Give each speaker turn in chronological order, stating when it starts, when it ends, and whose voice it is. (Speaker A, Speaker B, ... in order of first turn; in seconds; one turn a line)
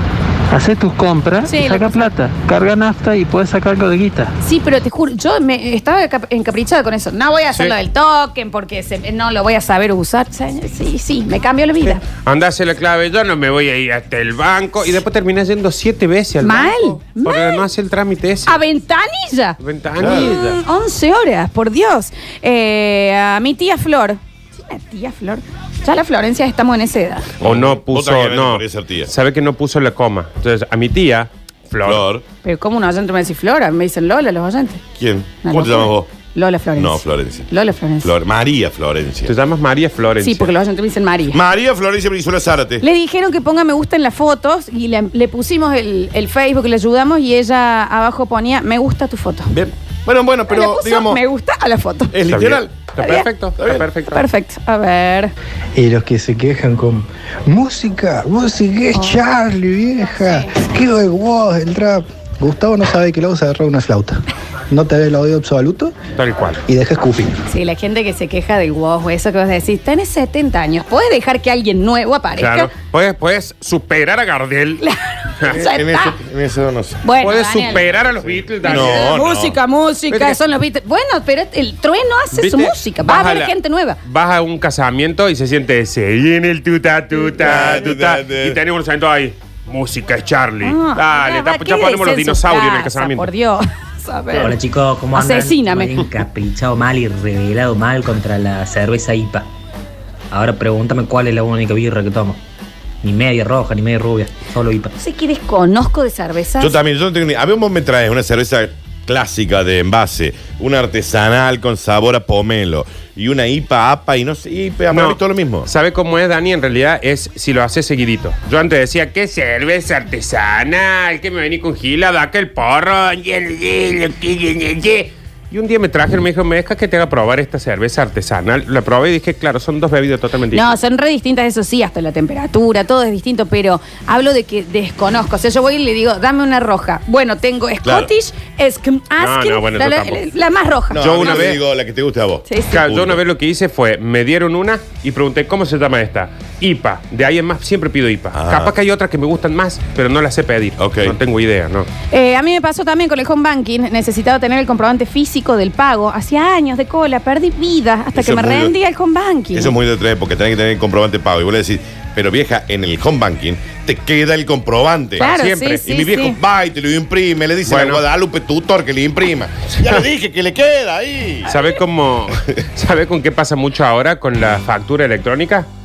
Speaker A: 0.5-4.3
Speaker B: 1.4-2.1
Speaker B: 4.4-12.0
Speaker C: 12.1-18.6
Speaker B: 16.4-17.6
Speaker B: 18.5-27.3
Speaker C: 19.6-20.6
Speaker D: 20.0-20.3
Speaker D: 27.4-29.1
Speaker C: 27.4-32.1
Speaker D: 31.8-32.2
Speaker B: 32.4-34.8
Speaker D: 35.0-36.1
Speaker B: 35.4-38.1
Speaker D: 36.8-37.5
Speaker D: 38.0-39.3
Speaker C: 39.3-40.5
Speaker B: 40.2-41.4
Speaker D: 41.3-42.9
Speaker B: 42.8-49.5
Speaker D: 49.5-51.2
Speaker B: 50.5-52.1
Speaker D: 52.1-52.9
Speaker C: 52.3-54.2
Speaker B: 53.0-53.3
Speaker D: 53.6-53.9
Speaker B: 54.1-55.3
Speaker E: 55.8-66.0
Speaker B: 58.9-59.2
Speaker B: 60.0-60.6
Speaker C: 66.2-66.6
Speaker E: 66.7-67.4
Speaker B: 67.5-72.7
Speaker C: 72.4-74.8
Speaker B: 74.8-76.2
Speaker D: 75.5-77.1
Speaker B: 77.0-77.8
Speaker C: 77.2-79.2
Speaker D: 77.7-79.6
Speaker B: 78.6-84.0
Speaker C: 80.1-80.4
Speaker C: 82.3-93.3
Speaker D: 87.4-88.6
Speaker B: 90.6-94.5
Speaker F: 94.3-99.5
Speaker B: 95.1-96.0
Speaker F: 100.3-102.4
Speaker F: 103.0-104.9
Speaker B: 105.0-106.8
Speaker D: 106.6-115.7
Speaker C: 114.9-130.8
Speaker B: 130.5-141.5
Speaker D: 137.8-138.1
Speaker C: 139.2-140.2
Speaker D: 140.9-143.2
Speaker C: 141.0-141.6
Speaker B: 142.5-142.8
Speaker C: 142.7-151.9
Speaker D: 148.3-148.7
Speaker D: 150.8-151.2
Speaker B: 152.1-159.7
Speaker D: 158.2-158.7
Speaker D: 159.5-165.3
Speaker C: 165.2-165.9
Speaker B: 165.2-166.4
Speaker D: 165.9-171.5
Speaker C: 167.7-168.0
Speaker B: 171.5-171.8
Speaker C: 171.5-175.7